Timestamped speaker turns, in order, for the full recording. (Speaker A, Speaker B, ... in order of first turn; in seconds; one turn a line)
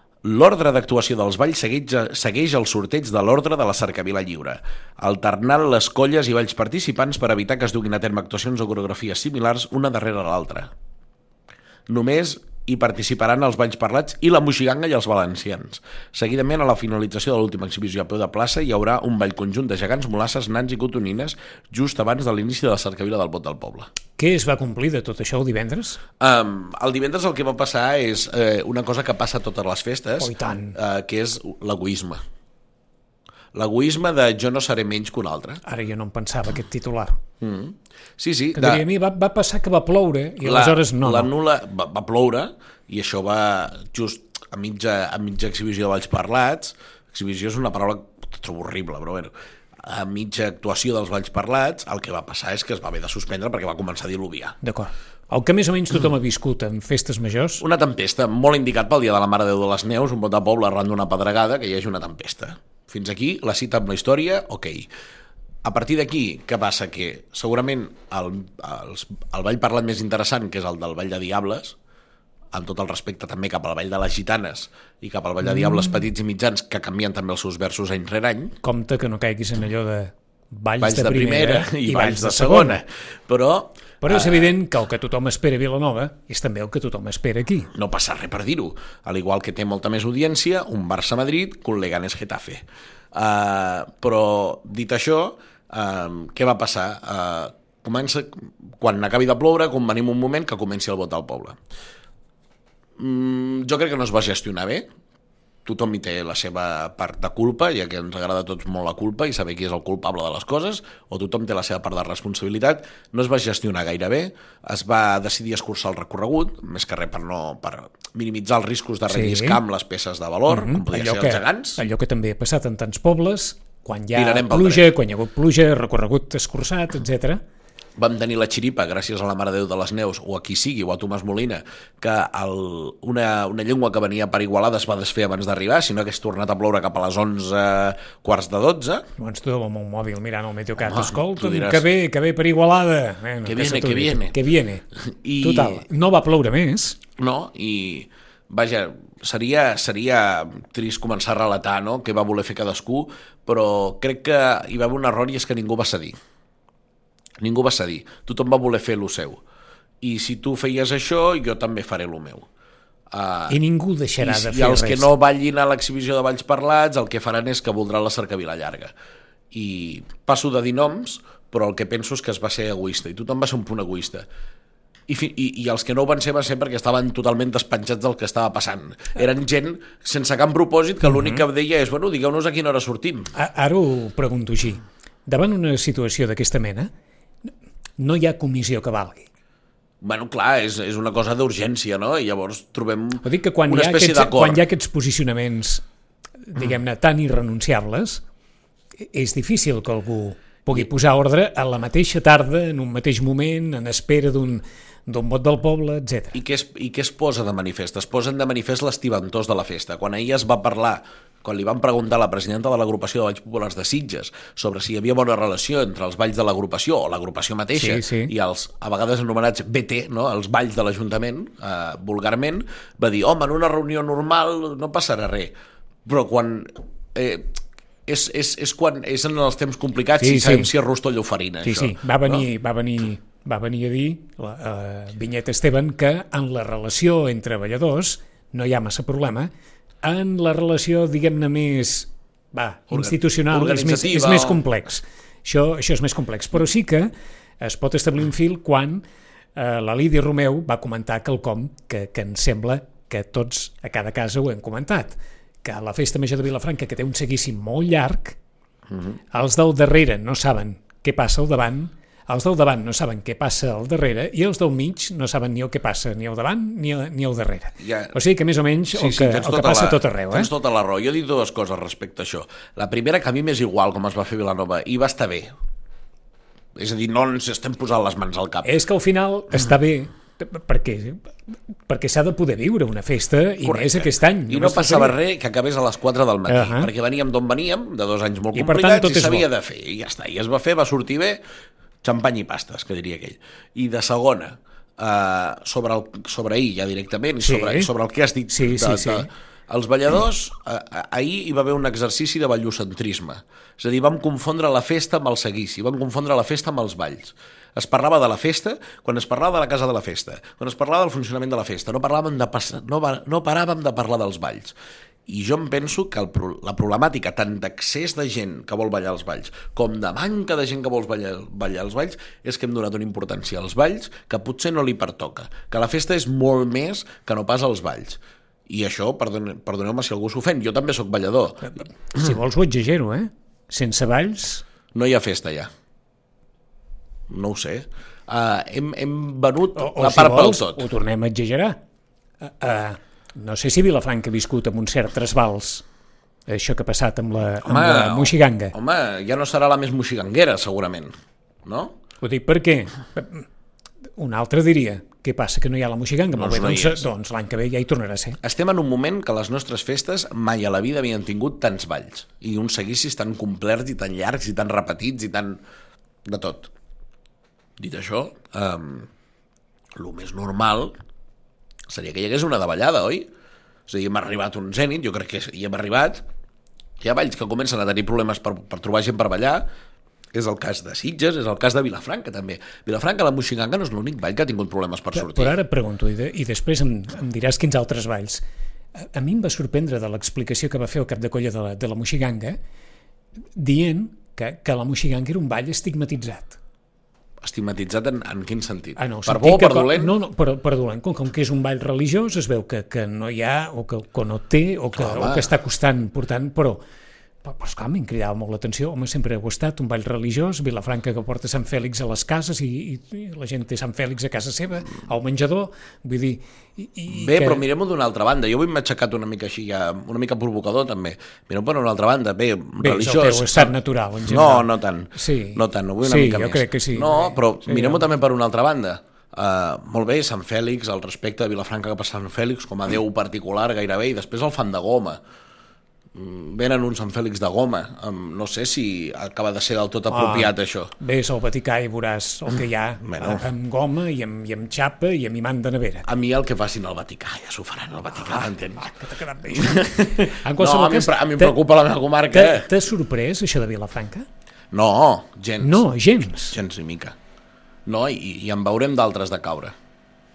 Speaker A: 0.2-10.7
Speaker A: 11.9-23.9
Speaker B: 24.2-26.0
Speaker A: 26.2-32.2
Speaker B: 30.2-30.8
Speaker A: 33.5-35.6
Speaker B: 35.6-37.2
Speaker A: 37.4-38.8
Speaker B: 38.5-41.3
Speaker A: 40.4-54.5
Speaker B: 54.6-57.6
Speaker A: 57.6-64.9
Speaker A: 65.6-71.8
Speaker A: 72.5-78.5
Speaker B: 75.4-75.9
Speaker B: 78.6-82.8
Speaker A: 80.8-84.6
Speaker B: 84.0-87.7
Speaker A: 87.7-101.6
Speaker A: 103.0-104.9
Speaker A: 105.6-121.8
Speaker B: 119.1-119.6
Speaker B: 120.5-127.4
Speaker A: 124.1-124.9
Speaker A: 128.0-139.1
Speaker B: 139.2-144.8
Speaker A: 140.8-141.8
Speaker A: 143.4-144.4
Speaker A: 144.9-145.8
Speaker B: 145.4-147.0
Speaker A: 147.2-156.2
Speaker A: 157.4-159.4
Speaker A: 160.0-162.5
Speaker A: 163.1-163.6
Speaker B: 163.5-165.1
Speaker A: 164.2-168.9
Speaker A: 169.5-174.2
Speaker A: 175.1-183.3
Speaker B: 181.0-181.4
Speaker B: 183.3-186.9
Speaker B: 188.0-189.3
Speaker A: 190.0-194.6
Speaker B: 193.2-195.8
Speaker B: 196.4-198.2
Speaker B: 199.0-206.4
Speaker A: 206.3-225.5
Speaker B: 217.7-218.3
Speaker A: 226.0-232.4
Speaker B: 230.2-230.7
Speaker B: 231.6-239.5
Speaker B: 240.0-249.0
Speaker A: 242.9-244.6
Speaker B: 249.5-258.4
Speaker A: 258.9-259.1
Speaker B: 259.3-270.5
Speaker A: 267.8-268.1
Speaker A: 268.9-275.5
Speaker A: 276.7-278.7
Speaker B: 278.6-285.1
Speaker A: 283.6-291.4
Speaker B: 286.5-286.9
Speaker B: 288.5-289.4
Speaker A: 292.0-314.8
Speaker B: 297.4-297.9
Speaker B: 298.5-299.3
Speaker A: 315.3-331.7
Speaker B: 331.7-334.6
Speaker A: 334.9-335.7
Speaker A: 337.3-340.9
Speaker B: 339.8-341.8
Speaker B: 342.4-345.8
Speaker B: 346.5-348.7
Speaker A: 347.6-351.1
Speaker A: 351.6-352.0
Speaker B: 352.2-353.5
Speaker B: 354.2-358.4
Speaker A: 356.4-357.0
Speaker A: 358.4-365.6
Speaker A: 366.2-366.7
Speaker A: 367.8-369.1
Speaker A: 369.9-370.9
Speaker A: 371.9-373.3
Speaker A: 373.9-376.2
Speaker A: 377.0-379.7
Speaker A: 380.3-385.6
Speaker B: 385.1-388.4
Speaker B: 388.9-392.6
Speaker B: 393.6-396.6
Speaker A: 397.4-400.1
Speaker B: 399.0-406.8
Speaker A: 404.9-405.5
Speaker B: 407.4-417.6
Speaker A: 417.1-435.2
Speaker B: 422.8-428.0
Speaker A: 436.1-440.9
Speaker B: 440.1-446.1
Speaker A: 443.0-443.4
Speaker A: 446.0-452.7
Speaker B: 448.3-451.6
Speaker B: 452.3-454.3
Speaker A: 454.7-455.8
Speaker B: 455.6-456.6
Speaker A: 456.5-457.2
Speaker A: 457.9-459.7